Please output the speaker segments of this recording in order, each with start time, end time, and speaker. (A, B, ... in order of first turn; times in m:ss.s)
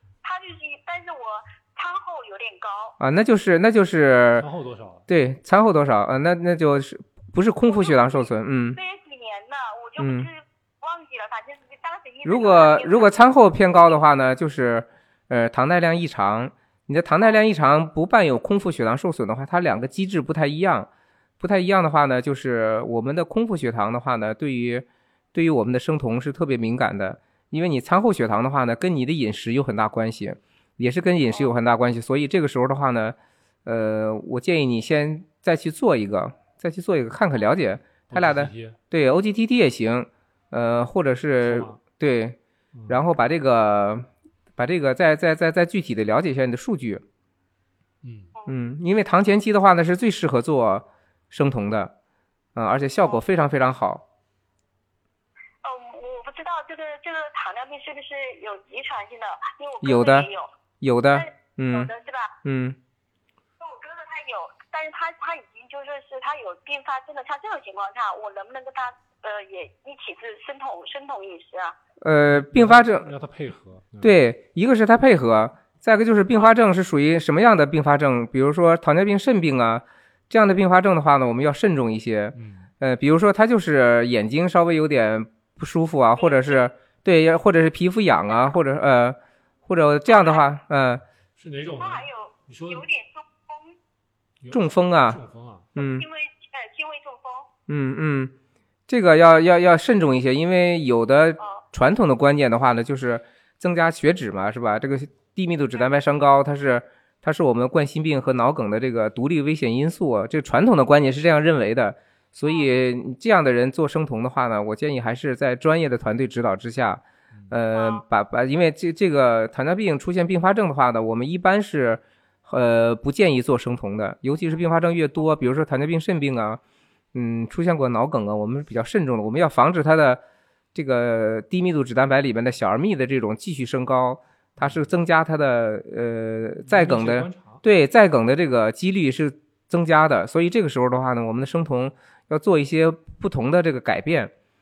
0:00.2-0:03.0 A
0:03.0-0:04.5 B
0:04.4-0:05.1 C
0:05.1-0:08.8 B
0:07.7-0:13.1 A
0:10.0-0:10.3 B
0:12.2-0:47.0 B
0:38.1-0:38.8 C
0:41.4-0:41.8 C
0:42.7-0:43.0 C
0:48.0-0:48.3 C
0:48.5-0:51.9 B
0:52.6-0:54.0 B
0:55.6-1:00.5 A
0:59.8-1:00.3 B
1:00.8-1:01.9 B
1:01.1-1:02.4 A
1:02.4-1:02.8 B
1:03.6-1:11.8 A
1:12.0-1:13.1 B
1:12.3-1:14.1 C
1:14.0-1:31.0 B
1:22.4-1:22.7 C
1:26.2-1:26.6 A
1:30.1-1:30.4 A
1:31.4-1:32.9 C
1:31.8-1:33.8 A
1:34.4-1:35.7 C
1:34.5-1:35.2 B
1:35.8-1:36.1 B
1:35.8-1:37.5 A
1:37.7-1:38.4 B
1:38.9-2:06.6 B
1:57.7-1:58.0 A
2:07.1-2:10.2 B
2:10.8-2:24.3 B
2:14.6-2:14.9 C
2:16.6-2:17.6 C